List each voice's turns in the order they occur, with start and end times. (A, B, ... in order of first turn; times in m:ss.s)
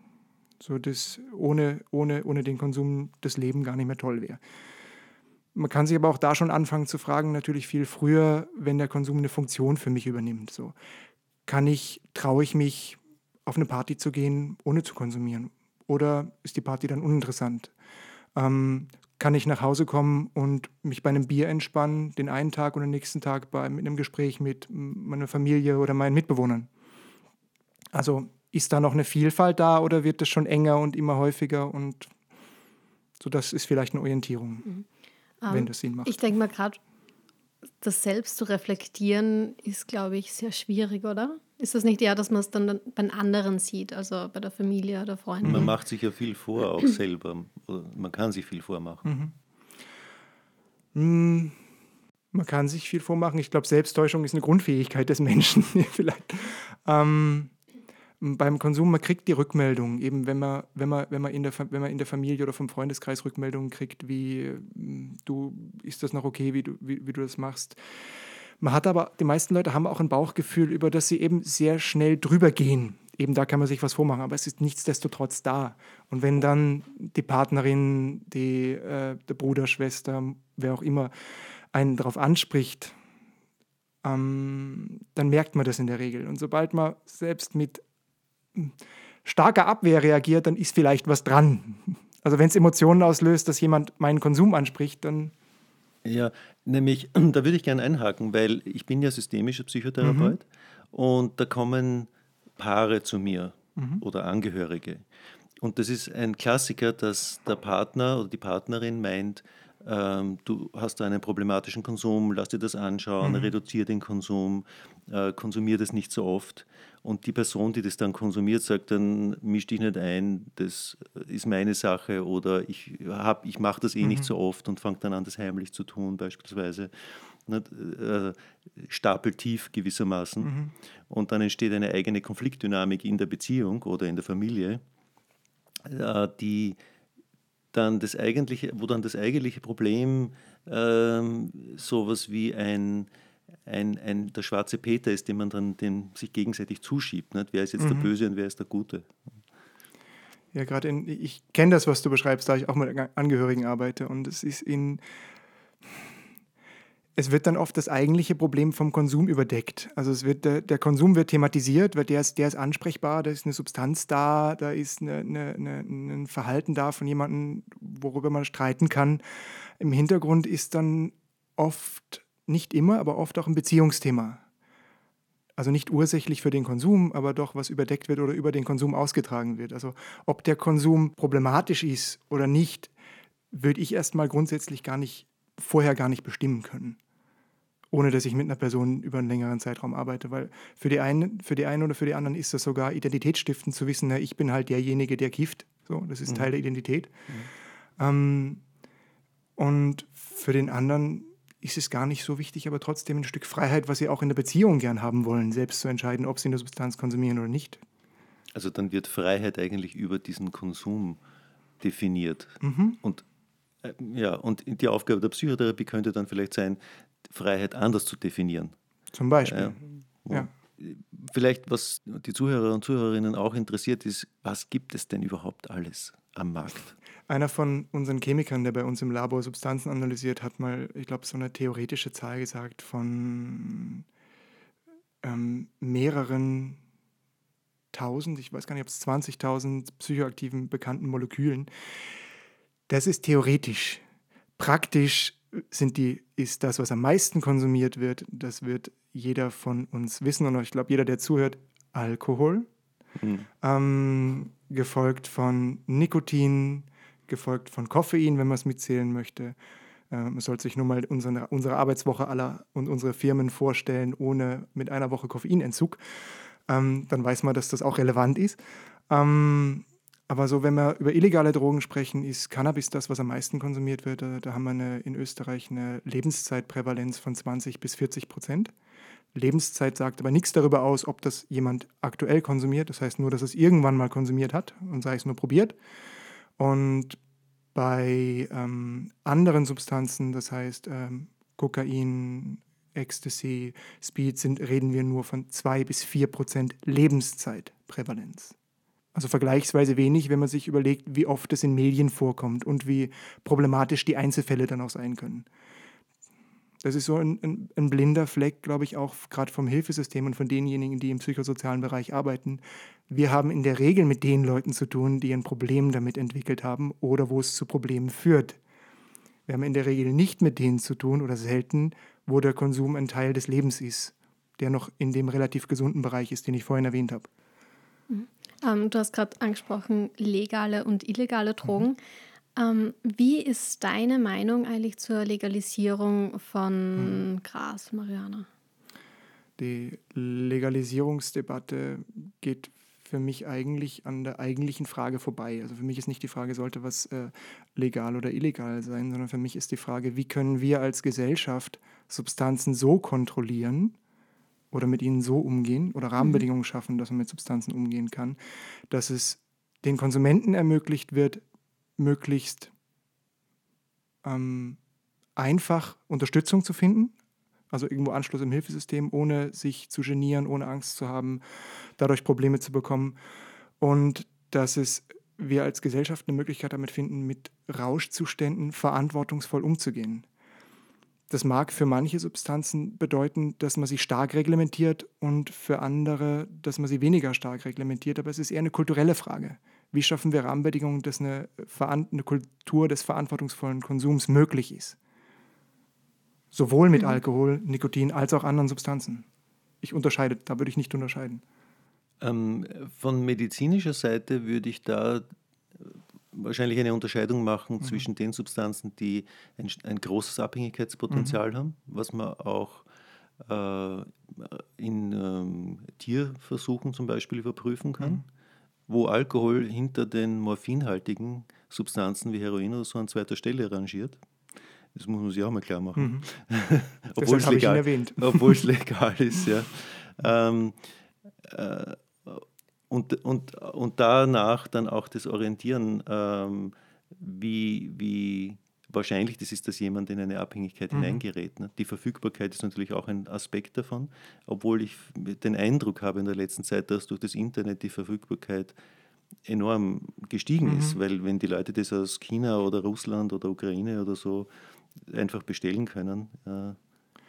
0:00.6-0:04.4 A
0:05.5-0:10.7 A
0:11.4-0:17.7 A
0:18.3-0:26.7 A
0:27.9-0:32.1 A
0:33.2-0:34.7 A
0:35.4-0:36.8 B
0:35.5-0:36.2 A
0:37.8-0:45.7 B
0:45.4-0:49.0 C
0:45.4-0:45.7 A
0:49.0-0:49.3 A
0:50.9-0:51.6 A
0:52.3-0:57.5 A
0:58.2-1:07.8 A
1:08.6-1:21.1 A
1:21.7-1:22.9 A
1:24.0-1:27.8 A
1:28.5-1:35.3 A
1:36.0-1:45.1 C
1:40.0-1:40.3 A
1:43.8-1:44.0 A
1:45.6-2:10.5 C
1:53.2-1:53.5 A
2:04.0-2:04.3 A
2:10.4-2:10.7 A
2:11.1-2:14.8 C
2:15.8-2:16.8 C
2:17.7-2:23.1 C
2:23.6-2:29.4 C
2:27.8-2:28.1 A
2:30.5-2:35.0 A
2:37.2-2:49.2 A
2:49.8-2:54.4 A
2:55.6-3:02.9 A
3:03.5-3:07.0 A
3:07.9-3:17.1 A
3:16.3-3:16.5 C
3:18.0-3:18.6 A
3:19.6-3:27.8 A
3:28.5-3:31.2 C
3:31.8-3:33.2 C
3:32.6-3:33.0 A
3:33.8-3:38.7 C
3:39.1-3:40.5 A
3:39.5-3:46.9 C
3:47.3-3:54.0 A
3:55.2-3:56.8 A
3:57.9-4:01.7 A
4:02.9-4:04.0 A
4:04.6-4:12.7 A
4:13.2-4:13.4 C
4:13.6-4:19.6 A
4:20.1-4:26.0 A
4:26.7-4:38.7 A
4:39.3-4:45.7 A
4:46.6-4:47.2 A
4:47.7-4:58.5 A
4:59.1-5:05.5 A
5:06.8-5:18.6 A
5:19.5-5:27.3 A
5:28.1-5:32.0 B
5:32.5-5:38.5 B
5:37.0-5:37.2 A
5:39.6-5:53.9 A
5:54.7-5:58.4 A
5:56.2-5:56.4 B
5:58.9-6:01.4 A
6:02.0-6:02.7 A
6:04.2-6:04.8 A
6:05.4-6:07.1 A
6:07.7-6:11.4 A
6:12.0-6:13.2 A
6:13.8-6:20.2 A
6:21.3-6:35.0 A
6:36.5-6:39.2 A
6:39.8-6:41.4 A
6:42.2-6:45.2 C
6:45.8-6:52.9 C
6:47.8-6:48.0 A
6:51.1-6:51.4 A
6:53.4-6:58.2 C
6:58.0-6:58.2 A
6:58.9-7:04.2 C
7:04.9-7:10.8 C
7:06.0-7:06.2 A
7:07.2-7:08.6 A
7:11.4-7:28.7 C
7:20.9-7:21.2 A
7:29.4-7:34.5 C
7:30.6-7:31.0 A
7:35.0-7:36.8 C